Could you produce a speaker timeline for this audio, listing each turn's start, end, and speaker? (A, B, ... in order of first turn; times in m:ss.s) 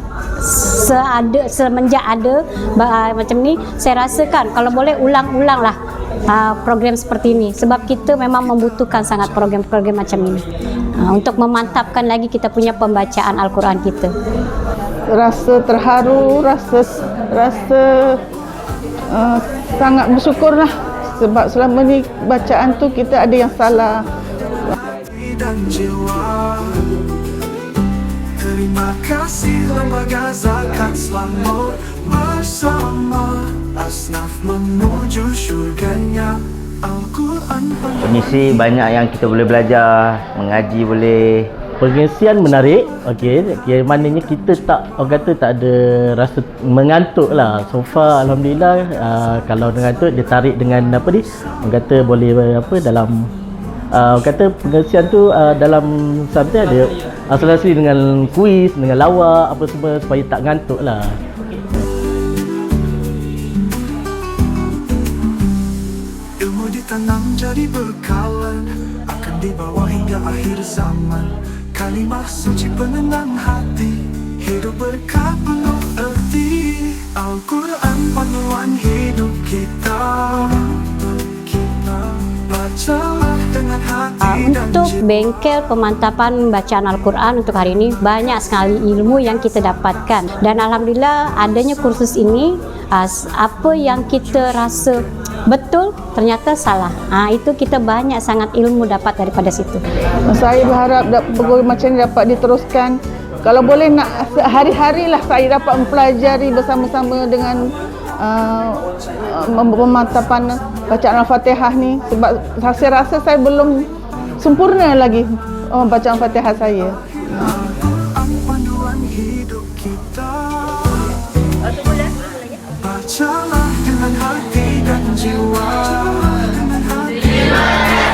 0:00.4-0:10.4 A
0:11.0-0:14.1 A
0:15.1-0:18.2 B
0:19.1-0:24.0 B
0:24.8-0:26.9 C
0:28.4-0:38.8 C
0:38.0-0:41.5 D
0:41.8-0:53.3 E
0:53.9-1:01.2 E
1:06.4-1:25.0 C
1:24.2-1:39.8 A
1:40.3-1:47.6 B
1:48.2-1:53.8 B
1:54.4-1:57.5 B
1:57.5-2:01.0 C
2:02.8-2:07.6 C